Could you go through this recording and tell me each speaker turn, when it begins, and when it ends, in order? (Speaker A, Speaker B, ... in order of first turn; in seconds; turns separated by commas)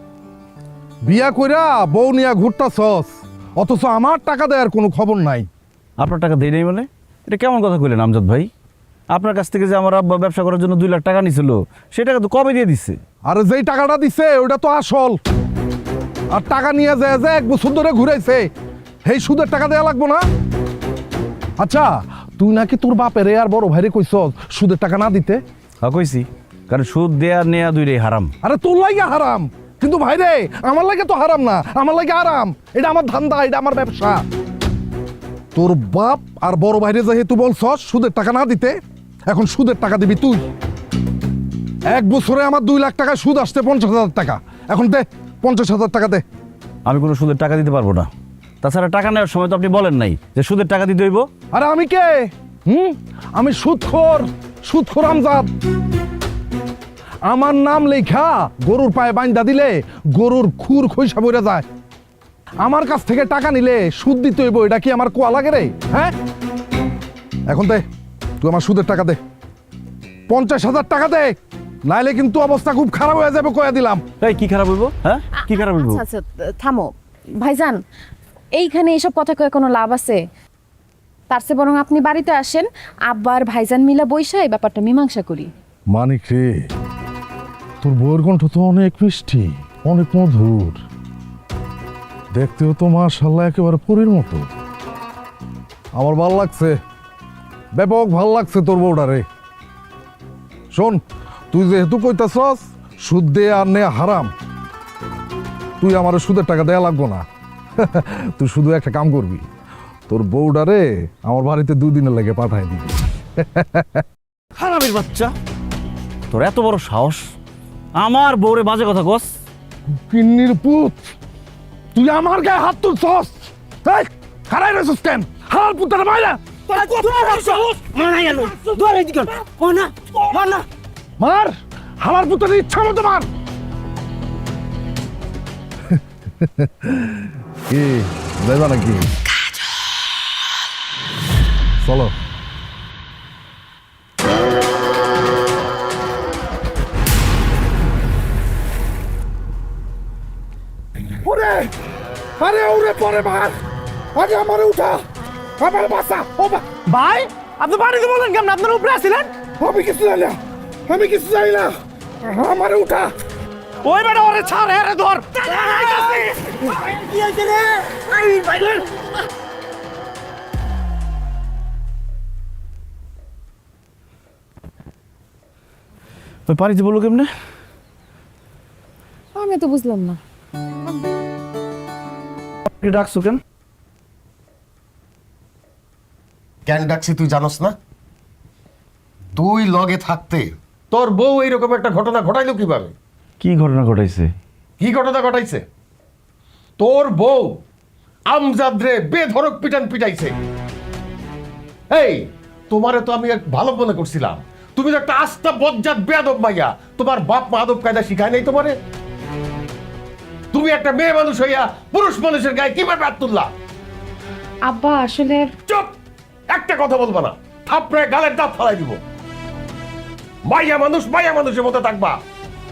Speaker A: 1.0-5.5, Speaker B: 6.0-8.5, Speaker B: 9.1-13.0, Speaker A: 13.2-15.2, Speaker A: 16.3-18.5, Speaker A: 19.0-20.2, Speaker A: 21.6-25.4, Speaker B: 25.8-28.3, Speaker A: 28.4-34.2, Speaker A: 35.5-38.8, Speaker A: 39.3-40.5, Speaker A: 41.9-46.2, Speaker B: 46.8-48.1, Speaker B: 48.6-51.3, Speaker A: 51.5-55.5, Speaker A: 57.3-61.6, Speaker A: 62.6-66.1, Speaker A: 67.5-67.8, Speaker A: 68.4-69.2, Speaker A: 70.3-71.3, Speaker A: 71.9-74.0, Speaker B: 74.2-76.0, Speaker C: 75.4-77.8, Speaker C: 78.5-80.2, Speaker C: 81.3-85.5, Speaker A: 85.9-86.7, Speaker A: 87.8-90.8, Speaker A: 92.3-94.5, Speaker A: 95.9-96.8, Speaker A: 97.7-99.2, Speaker A: 100.7-104.3, Speaker A: 105.8-107.2, Speaker A: 107.8-109.4, Speaker A: 110.1-114.0, Speaker B: 114.5-115.3, Speaker B: 116.3-117.3, Speaker B: 117.9-119.3, Speaker A: 120.1-121.0, Speaker A: 121.9-129.6, Speaker D: 126.9-127.3, Speaker D: 127.9-129.6, Speaker A: 131.2-133.3, Speaker A: 135.9-139.1, Speaker A: 141.8-142.2, Speaker A: 151.2-151.7, Speaker A: 152.4-153.5, Speaker A: 154.1-155.0, Speaker A: 155.6-156.9, Speaker D: 156.9-159.3, Speaker A: 159.4-163.1, Speaker B: 163.8-165.4, Speaker D: 165.6-166.0, Speaker A: 165.7-166.3, Speaker D: 166.9-168.8, Speaker B: 176.5-177.3, Speaker C: 179.3-180.2, Speaker B: 182.8-183.4, Speaker E: 186.7-187.8, Speaker E: 189.3-192.9, Speaker B: 193.4-194.3, Speaker E: 194.8-195.6, Speaker E: 196.8-197.5, Speaker E: 198.3-200.3, Speaker E: 201.9-208.8, Speaker E: 210.5-213.5, Speaker C: 214.6-215.5, Speaker E: 215.7-215.9, Speaker E: 216.5-219.0, Speaker E: 220.5-222.2